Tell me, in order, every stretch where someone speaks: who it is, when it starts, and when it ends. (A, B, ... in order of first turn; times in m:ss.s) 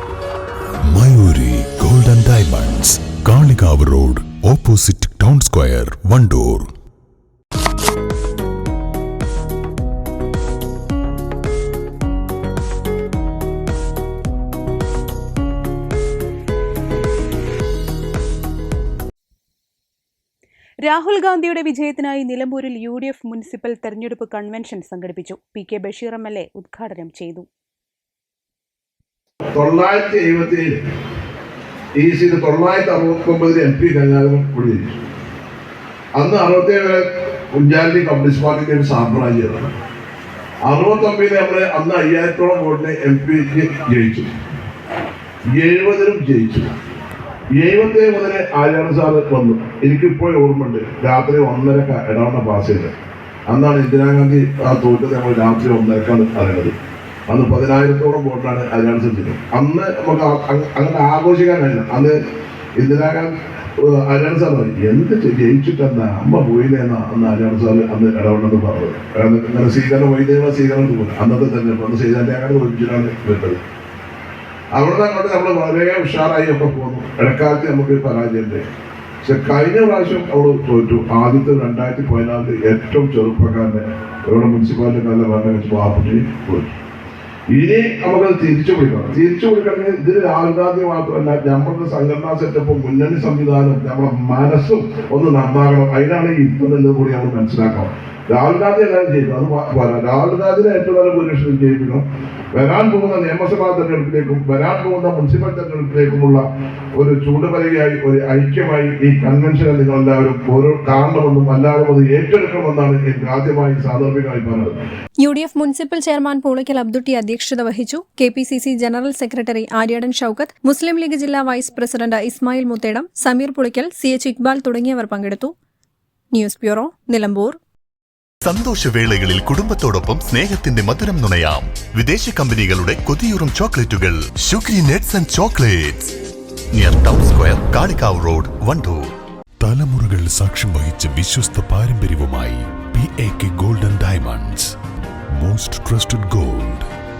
0:00.9-0:06.7 A
0:20.8-0:27.5 B
0:29.5-0:30.8 C
0:32.0-0:35.0 C
0:36.2-0:39.7 C
0:40.7-0:44.3 C
0:45.6-0:46.7 C
0:47.6-0:52.9 C
0:53.5-0:56.7 C
0:57.3-1:02.2 C
1:02.8-1:13.6 C
1:14.8-1:18.6 C
1:19.2-1:26.7 C
1:27.5-1:46.4 C
1:47.0-1:54.8 C
1:55.2-2:05.6 D
2:06.3-2:07.6 D
2:08.4-2:16.0 E
2:16.7-2:19.1 E
2:19.6-2:24.7 A
2:25.4-2:26.9 A